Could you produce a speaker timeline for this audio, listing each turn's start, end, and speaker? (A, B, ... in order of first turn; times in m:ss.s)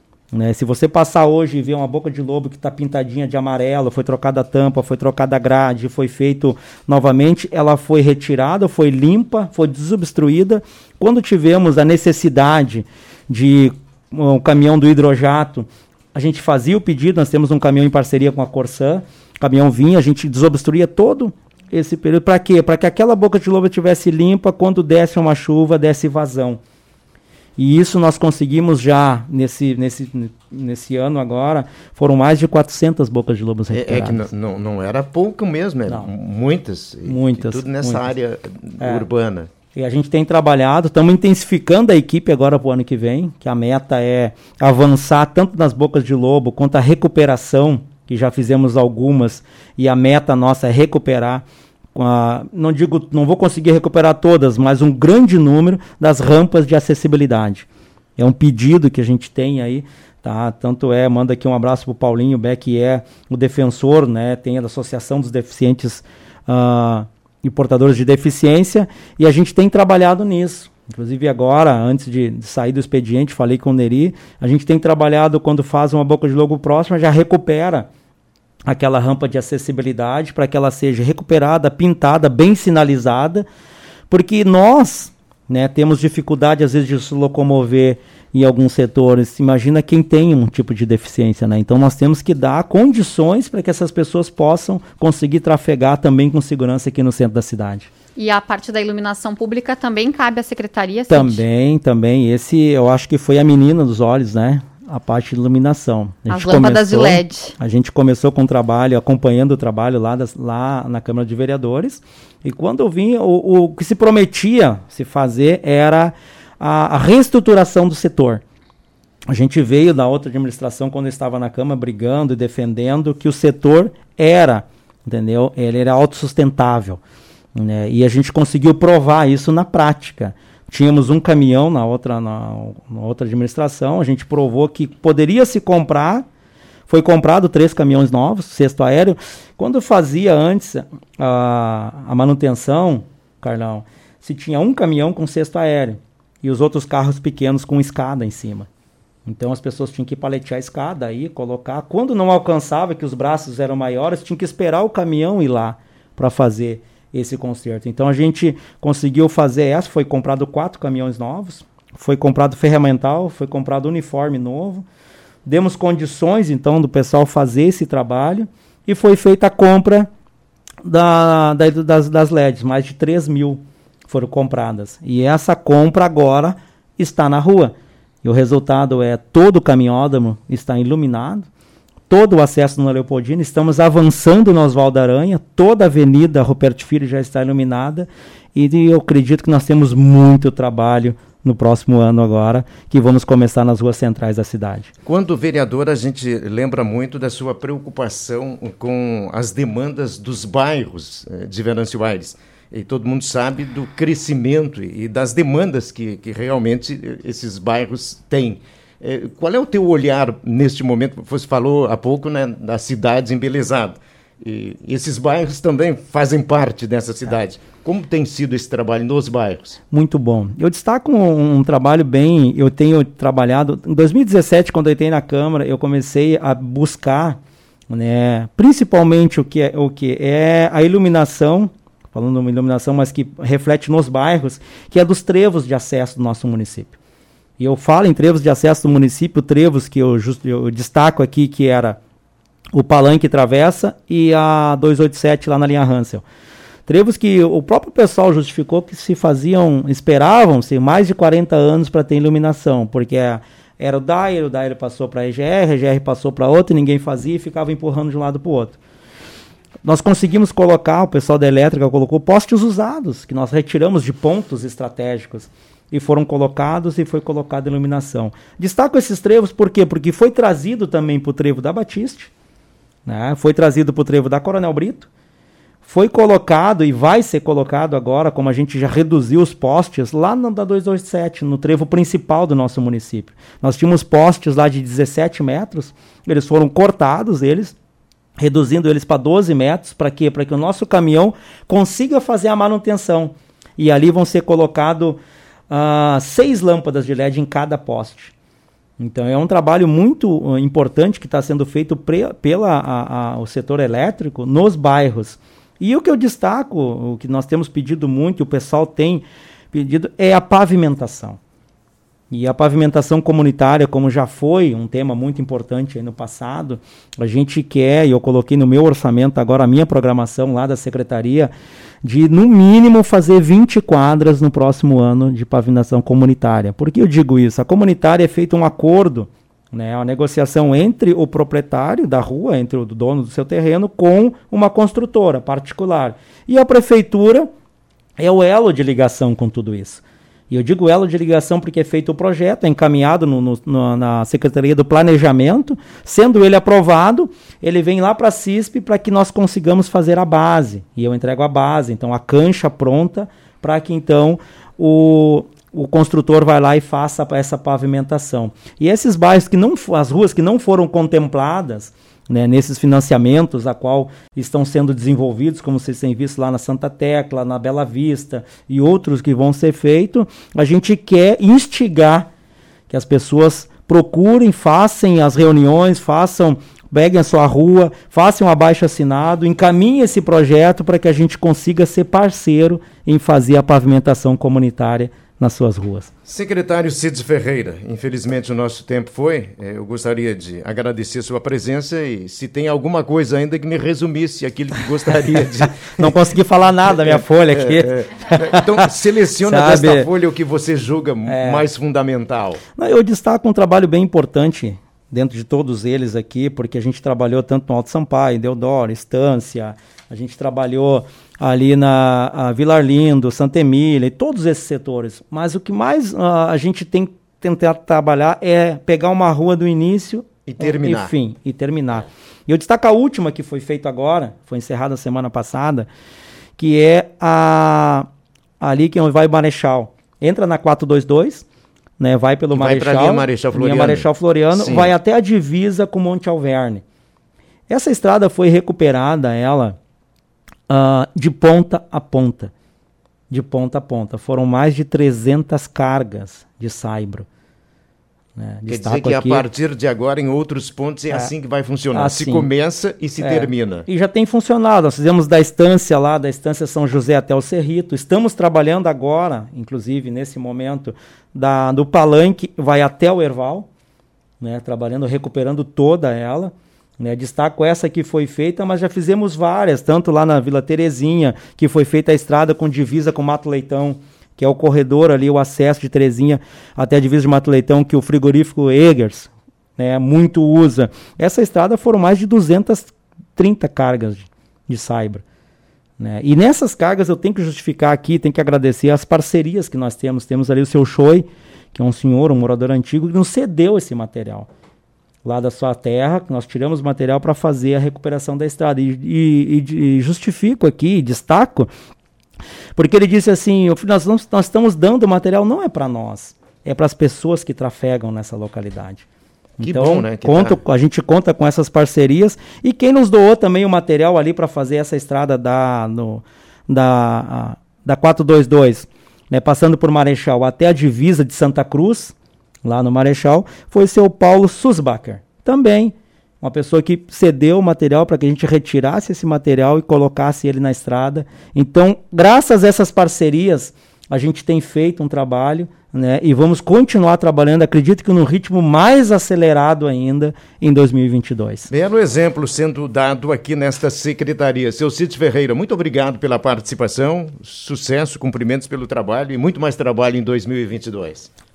0:00.3-0:26.6 A
0:27.6-0:34.3 A
0:33.7-0:39.5 B
0:37.0-0:38.1 A
0:38.8-0:39.1 A
0:39.7-1:17.9 A
1:18.7-1:23.5 A
1:24.1-1:37.9 A
1:38.2-1:41.4 C
1:41.1-1:58.4 A
1:46.3-1:47.5 C
1:59.3-2:07.0 A
2:07.6-2:16.3 A
2:16.9-2:28.7 A
2:29.3-2:44.8 A
2:45.4-2:50.1 A
2:50.8-3:01.5 A
3:02.1-3:14.9 A
3:15.1-3:39.8 B
3:39.9-3:47.4 A
3:47.9-3:57.0 A
3:57.6-4:02.0 A
4:02.7-4:06.2 A
4:06.9-4:18.8 A
4:19.8-4:32.3 A
4:33.1-4:35.1 A
4:35.8-4:47.8 A
4:48.4-4:58.3 A
4:59.0-5:11.4 A
5:12.3-5:21.5 A
5:22.0-5:37.5 A
5:38.2-6:12.3 A
6:12.9-6:26.1 A
6:26.3-6:36.1 B
6:35.2-6:38.9 A
6:37.0-6:42.6 B
6:39.4-6:40.1 A
6:41.2-6:41.7 A
6:42.8-7:05.9 A
7:00.5-7:01.1 B
7:06.6-7:08.1 A
7:08.6-7:11.5 A
7:12.0-7:16.8 A
7:12.5-7:14.9 B
7:17.7-7:19.8 A
7:20.7-7:22.5 A
7:23.3-7:27.3 A
7:28.4-7:29.5 A
7:28.7-7:33.9 B
7:31.9-7:32.5 A
7:33.2-7:43.7 A
7:44.4-8:05.2 A
8:06.0-8:14.5 A
8:15.2-8:21.7 A
8:22.8-8:29.1 A
8:29.6-9:01.7 A
8:29.6-8:30.6 B
9:01.7-9:11.3 B